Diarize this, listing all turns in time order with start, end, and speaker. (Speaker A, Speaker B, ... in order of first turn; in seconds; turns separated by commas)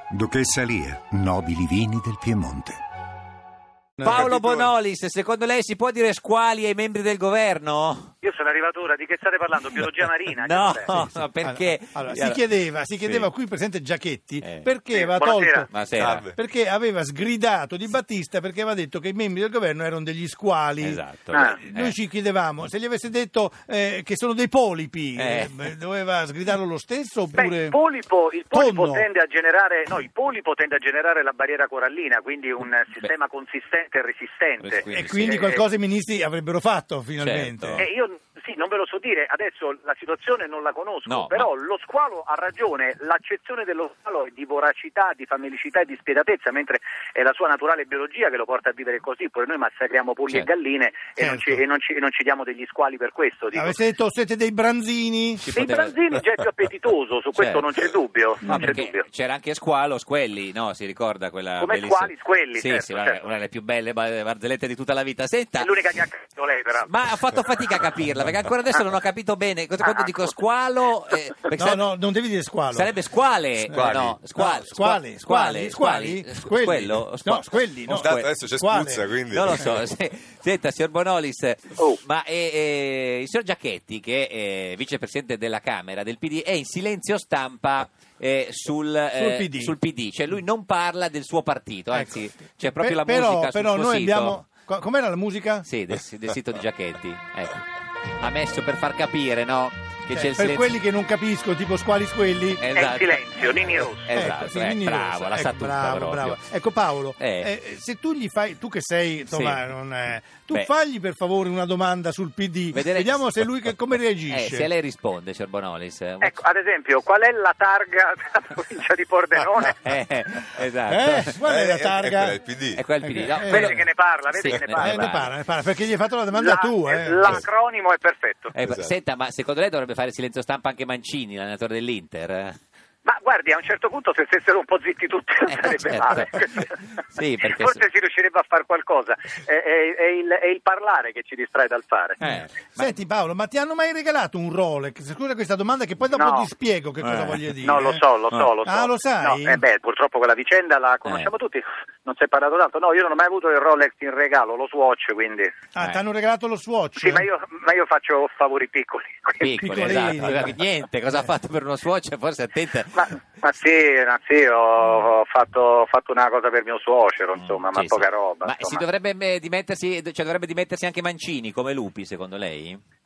Speaker A: 0.1-2.8, Speaker B: 4.0-4.3, Speaker C: 4.0-8.1, Speaker D: 4.1-4.7, Speaker E: 8.2-11.0, Speaker C: 10.3-12.4, Speaker B: 11.1-15.7, Speaker C: 13.0-13.3, Speaker E: 14.9-15.7, Speaker C: 15.7-16.2, Speaker D: 15.9-16.4, Speaker B: 16.3-27.8, Speaker C: 20.8-21.9, Speaker E: 21.3-21.6, Speaker C: 25.2-25.7, Speaker E: 27.4-35.6, Speaker B: 28.5-29.1, Speaker C: 34.6-35.4, Speaker B: 34.9-37.8, Speaker C: 37.2-37.8, Speaker E: 37.8-53.8, Speaker C: 41.1-41.5, Speaker B: 51.2-51.6, Speaker B: 53.5-55.5, Speaker C: 55.4-56.0, Speaker E: 55.5-59.0, Speaker C: 57.4-57.7, Speaker C: 58.4-65.8, Speaker E: 61.6-63.2, Speaker E: 65.6-66.9, Speaker C: 66.8-71.9, Speaker E: 69.8-70.3, Speaker B: 71.5-72.9, Speaker C: 72.7-78.3, Speaker B: 73.7-79.1, Speaker D: 73.7-74.2, Speaker D: 78.0-79.8, Speaker C: 79.3-94.4, Speaker B: 89.1-89.7, Speaker B: 91.9-95.7, Speaker C: 95.7-97.6, Speaker C: 98.2-100.7, Speaker B: 100.1-102.6, Speaker C: 102.6-106.4, Speaker E: 102.7-104.1, Speaker B: 104.1-114.7, Speaker C: 107.2-107.5, Speaker C: 109.3-109.6, Speaker C: 112.7-113.5, Speaker C: 114.3-116.3, Speaker E: 116.2-119.8, Speaker C: 119.8-121.4, Speaker B: 120.9-122.4, Speaker D: 121.4-123.3, Speaker C: 122.8-125.3, Speaker B: 123.0-123.8, Speaker E: 123.4-125.0, Speaker B: 124.8-127.4, Speaker E: 126.3-128.6, Speaker C: 128.5-132.6, Speaker D: 128.6-128.9, Speaker E: 133.1-136.8, Speaker C: 135.5-137.8, Speaker E: 137.4-142.2, Speaker C: 142.2-142.9, Speaker B: 142.2-148.0, Speaker E: 146.2-146.5, Speaker C: 147.0-147.4, Speaker E: 147.6-155.5, Speaker B: 148.6-149.6, Speaker B: 155.7-157.2, Speaker E: 157.0-159.7, Speaker C: 159.4-163.1, Speaker B: 159.6-160.6, Speaker E: 162.9-168.8, Speaker C: 167.3-172.8